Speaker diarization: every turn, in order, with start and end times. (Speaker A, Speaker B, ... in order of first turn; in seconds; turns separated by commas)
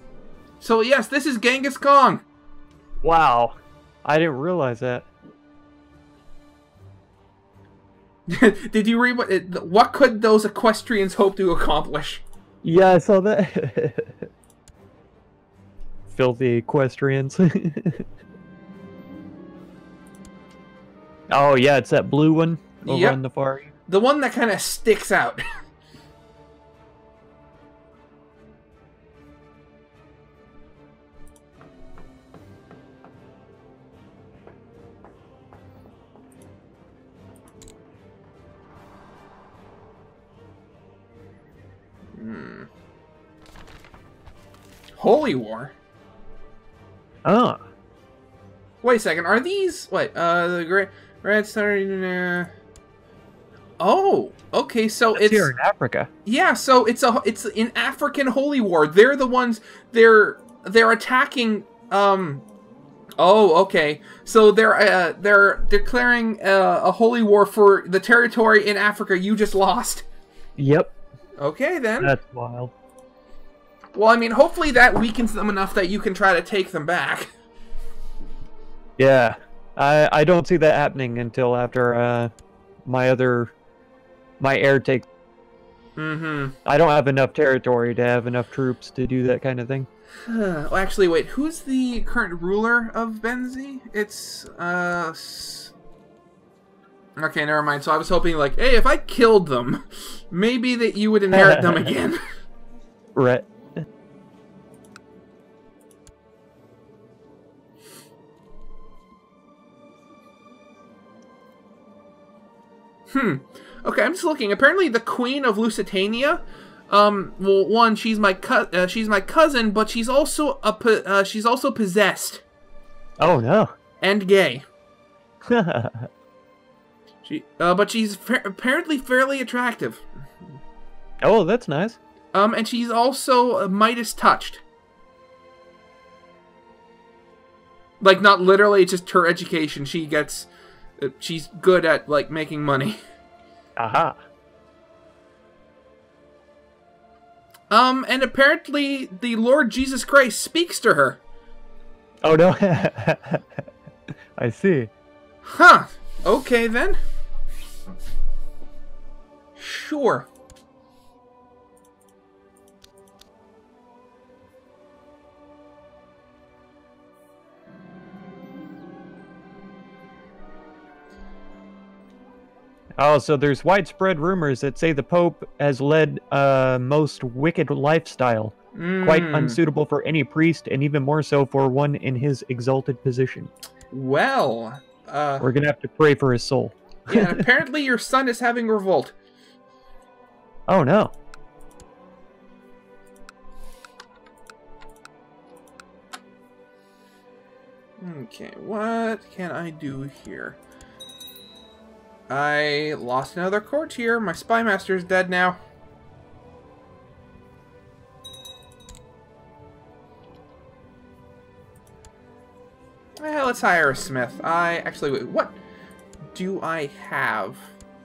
Speaker A: 0.6-2.2, Speaker B: 3.0-5.1, Speaker A: 8.3-12.2, Speaker B: 12.6-14.3, Speaker B: 16.1-18.1, Speaker B: 21.3-23.7, Speaker A: 22.9-23.2, Speaker A: 23.9-25.4, Speaker A: 42.1-42.7, Speaker A: 45.0-45.7, Speaker B: 47.2-47.6, Speaker A: 48.8-52.5, Speaker A: 53.8-55.5, Speaker B: 55.2-56.1, Speaker A: 56.2-62.4, Speaker A: 63.2-70.0, Speaker B: 70.6-70.9, Speaker A: 71.4-72.1, Speaker B: 72.0-72.7, Speaker A: 74.0-77.3, Speaker B: 79.0-82.3, Speaker B: 82.9-83.5, Speaker B: 84.4-85.1, Speaker A: 86.0-86.6, Speaker B: 86.7-89.9, Speaker A: 90.2-95.7, Speaker A: 97.2-102.2, Speaker B: 101.3-101.9, Speaker B: 103.2-103.5, Speaker A: 113.1-122.4, Speaker B: 123.2-123.7, Speaker A: 124.0-124.7, Speaker B: 125.5-126.1, Speaker A: 127.2-130.1, Speaker B: 131.2-132.0, Speaker A: 132.3-134.6, Speaker A: 138.0-140.5, Speaker A: 141.0-143.0, Speaker B: 143.8-144.2, Speaker A: 147.7-151.2, Speaker B: 152.2-153.6, Speaker B: 154.4-154.9, Speaker A: 155.4-157.0, Speaker A: 159.6-160.3, Speaker B: 173.0-183.5, Speaker A: 178.8-179.6, Speaker A: 183.9-185.5, Speaker B: 185.4-187.4, Speaker A: 187.1-189.1, Speaker B: 190.7-191.1, Speaker A: 198.0-200.6, Speaker A: 202.3-205.6, Speaker A: 213.2-215.6, Speaker A: 216.3-217.7